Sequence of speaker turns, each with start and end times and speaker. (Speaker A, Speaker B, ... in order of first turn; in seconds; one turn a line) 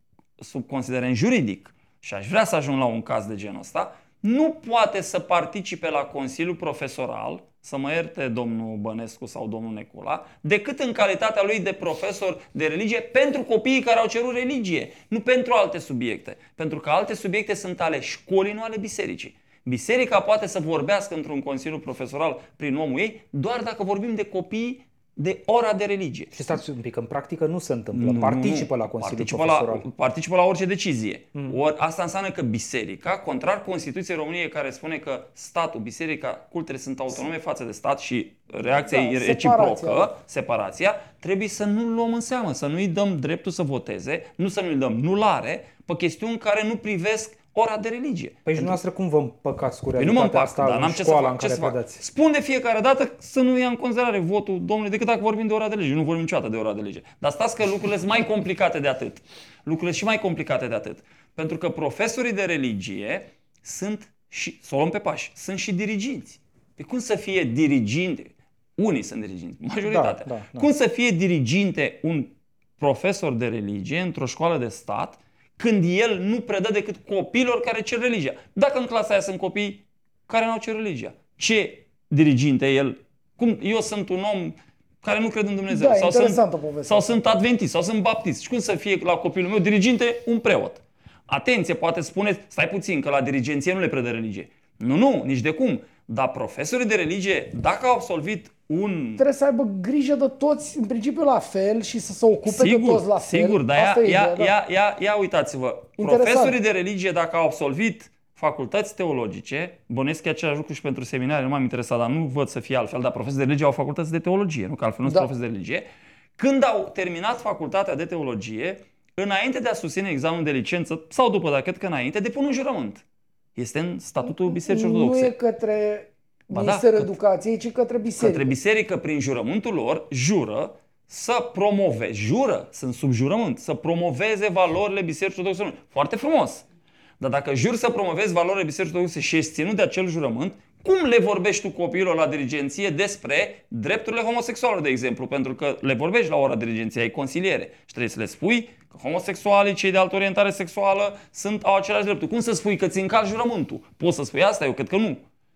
Speaker A: 0.4-26.3
Speaker B: 26.3-29.9
Speaker A: 27.9-48.8
Speaker C: 38.9-40.1
Speaker B: 48.4-52.0
Speaker A: 50.0-99.2
Speaker B: 69.8-70.7
Speaker C: 85.7-87.1
Speaker C: 99.2-104.5
Speaker A: 102.5-115.8
Speaker C: 106.0-106.6
Speaker A: 116.4-123.0
Speaker A: 123.6-125.3
Speaker C: 124.2-128.5
Speaker A: 126.5-127.1
Speaker A: 128.2-136.6
Speaker A: 137.2-155.2